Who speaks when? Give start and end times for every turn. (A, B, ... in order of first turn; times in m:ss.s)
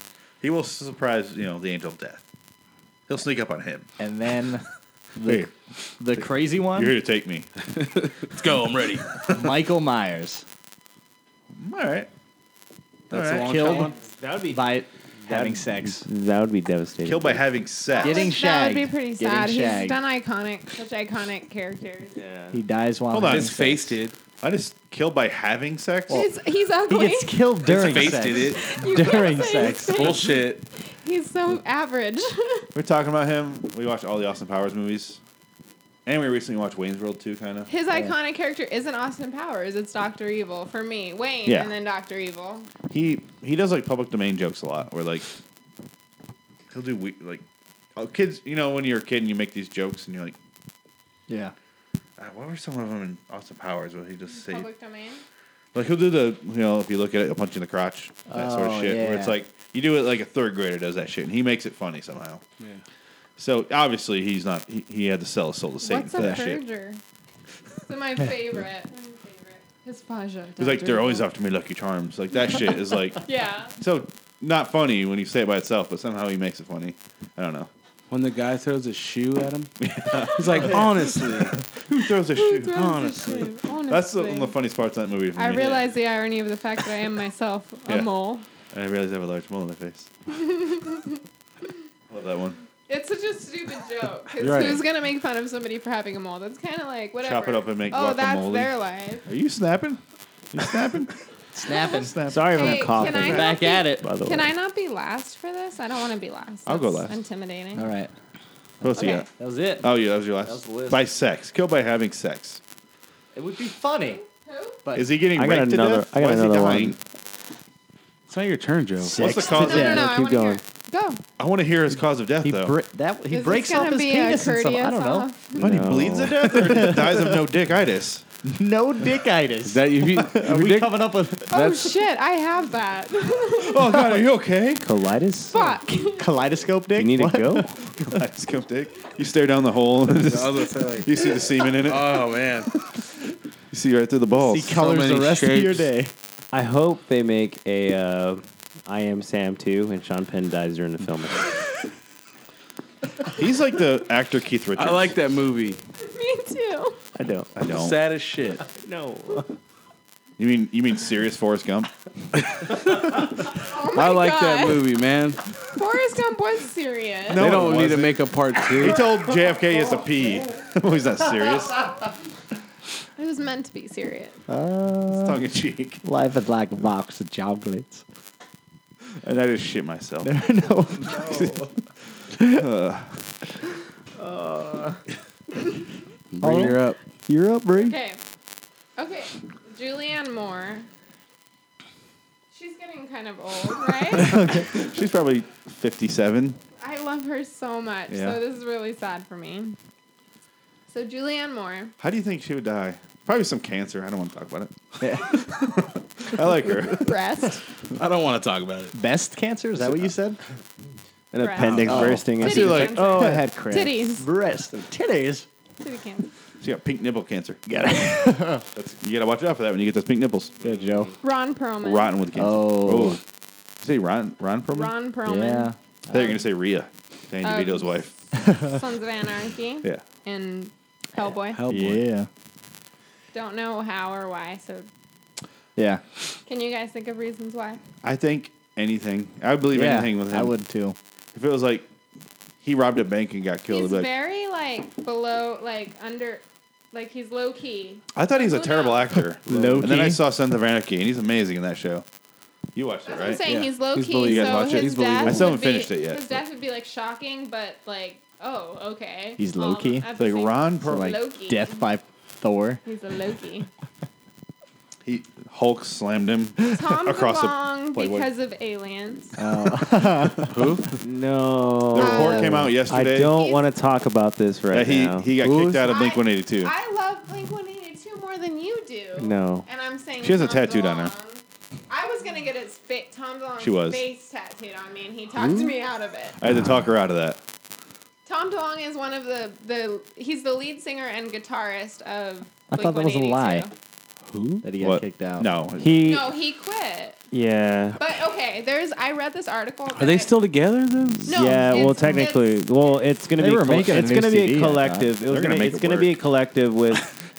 0:00.4-0:02.2 A
0:03.1-0:03.9 A
0:04.0-0:04.6 B
0:05.2-0:07.0 B
0:05.2-0:05.5 A
0:06.7-0:07.5 A
0:07.7-0:09.2 C
0:09.2-0:10.4 B
0:11.5-0:12.1 A
0:13.1-0:13.9 A
0:13.1-0:13.9 C
0:13.1-0:13.9 B
0:13.9-0:17.4 D
0:14.5-0:16.1 B
0:17.0-0:18.3 A
0:18.0-0:22.2 E
0:18.0-0:20.0 B
0:22.1-0:22.6 D
0:22.5-0:24.0 B
0:23.1-0:23.7 A
0:23.2-0:24.2 C
0:24.4-0:26.3 A
0:26.1-0:27.4 E
0:26.9-0:30.2 B
0:27.6-0:28.7 C
0:28.2-0:32.7 E
0:29.4-0:30.6 C
0:32.7-0:35.2 A
0:36.0-0:37.7 A
0:37.7-0:42.7 E
0:41.4-0:41.7 A
0:42.9-0:45.2 A
0:46.7-0:47.4 A
0:48.0-0:50.4 A
0:51.3-0:51.5 B
0:52.2-0:54.7 A
0:54.3-0:55.2 E
0:55.7-1:02.4 A
0:58.3-0:59.4 B
1:03.4-1:06.6 A
1:05.8-1:07.0 E
1:06.1-1:06.4 B
1:07.9-1:11.3 E
1:10.6-1:13.2 A
1:13.2-1:13.7 E
1:13.8-1:17.7 A
1:18.1-1:19.7 C
1:19.8-1:23.4 A
1:20.2-1:21.6 C
1:22.3-1:24.6 E
1:22.7-1:23.5 C
1:23.9-1:25.9 A
1:25.4-1:28.4 E
1:28.7-1:30.1 A
1:30.3-1:31.2 E
1:32.1-1:32.6 A
1:32.9-1:39.3 E
1:34.4-1:34.8 C
1:37.2-1:38.7 A
1:39.2-1:40.0 A
1:40.5-1:41.1 A
1:41.5-1:44.1 B
1:41.6-1:47.9 E
1:41.9-1:42.8 A
1:42.2-1:44.5 D
1:46.6-1:47.2 A
1:47.7-1:48.1 B
1:48.8-1:51.0 B
1:48.8-1:49.3 A
1:49.0-1:49.3 E
1:49.8-1:52.6 A
1:53.3-1:54.2 B
1:54.1-1:54.8 E
1:54.8-1:55.1 B
1:54.9-1:57.0 A
1:55.4-1:57.0 D
1:58.3-1:59.2 C
1:59.0-2:00.1 B
1:59.1-2:00.0 A
1:59.2-2:01.2 E
1:59.5-2:00.6 D
2:01.4-2:02.7 A
2:02.4-2:05.3 B
2:03.3-2:05.6 E
2:05.5-2:06.3 D
2:05.6-2:08.2 A
2:05.9-2:07.4 B
2:08.4-2:12.0 B
2:09.6-2:11.0 C
2:11.5-2:14.1 E
2:13.5-2:14.8 A
2:14.8-2:15.6 D
2:15.5-2:16.5 E
2:15.7-2:17.8 B
2:16.9-2:17.8 D
2:18.0-2:22.3 A
2:20.2-2:21.2 C
2:21.8-2:22.7 C
2:23.7-2:24.8 A
2:24.4-2:26.1 B
2:24.7-2:25.9 C
2:26.5-2:31.6 D
2:33.3-2:35.2 A
2:34.8-2:35.8 C
2:36.0-2:37.0 E
2:37.2-2:37.5 D
2:37.6-2:38.0 A
2:37.6-2:38.6 C
2:38.8-2:39.5 D
2:40.4-2:41.9 A
2:42.4-2:43.2 C
2:43.6-2:44.9 E
2:43.9-2:45.4 C
2:45.6-2:47.5 E
2:47.3-2:48.2 A
2:47.3-2:49.0 C
2:48.7-2:51.8 A
2:53.2-2:54.4 E
2:54.5-2:55.4 B
2:55.1-2:56.0 A
2:56.0-2:58.0 B
2:59.2-3:00.4 A
3:00.2-3:01.7 B
3:01.0-3:01.7 A
3:02.4-3:02.6 B
3:02.4-3:03.2 A
3:04.2-3:05.0 B
3:06.3-3:07.0 C
3:06.4-3:08.0 B
3:07.7-3:08.2 E
3:09.0-3:10.9 E
3:12.5-3:14.6 E
3:14.2-3:14.8 B
3:14.3-3:16.6 A
3:16.8-3:19.8 E
3:18.1-3:18.4 A
3:20.9-3:21.9 E
3:22.0-3:27.2 A
3:25.0-3:25.4 B
3:26.4-3:27.6 E
3:28.0-3:28.9 C
3:28.9-3:30.4 B
3:31.3-3:33.9 D
3:31.4-3:34.2 E
3:31.6-3:33.0 A
3:31.8-3:32.3 B
3:33.1-3:35.4 B
3:35.8-3:36.3 E
3:36.6-3:37.6 A
3:37.7-3:38.6 B
3:38.7-3:40.7 A
3:40.6-3:41.2 B
3:41.2-3:42.2 E
3:41.8-3:43.2 A
3:42.3-3:43.2 B
3:43.8-3:44.9 A
3:44.7-3:45.7 E
3:45.2-3:46.3 B
3:46.1-3:48.1 A
3:47.4-3:51.6 E
3:48.4-3:48.8 B
3:51.5-3:52.0 C
3:51.7-3:52.3 B
3:53.3-3:54.9 E
3:55.8-3:56.0 B
3:56.4-3:57.8 E
3:58.0-4:00.5 A
3:59.7-4:01.0 B
4:01.3-4:01.9 A
4:02.6-4:04.1 A
4:03.7-4:09.2 E
4:08.1-4:12.0 A
4:09.4-4:10.2 B
4:09.6-4:09.9 C
4:12.7-4:13.4 A
4:13.1-4:21.9 E
4:13.4-4:15.5 C
4:14.2-4:16.4 A
4:19.4-4:20.1 B
4:20.2-4:21.2 A
4:20.8-4:22.8 B
4:22.8-4:23.7 E
4:25.0-4:28.3 A
4:26.7-4:29.4 E
4:29.4-4:30.6 B
4:30.5-4:30.9 C
4:31.0-4:35.8 D
4:31.9-4:33.4 A
4:32.0-4:33.6 E
4:34.7-4:36.7 A
4:35.8-4:46.4 E
4:39.2-4:39.6 D
4:40.2-4:41.1 A
4:43.6-4:44.0 A
4:46.4-4:47.4 A
4:48.2-4:53.7 E
4:52.7-4:53.7 B
4:54.6-4:55.5 B
4:54.8-4:56.2 A
4:55.8-4:56.2 D
4:56.0-4:57.2 E
4:57.3-4:58.0 D
4:58.0-5:00.3 E
5:00.0-5:01.4 C
5:01.2-5:07.0 D
5:01.3-5:03.1 E
5:03.4-5:05.1 B
5:05.3-5:06.2 A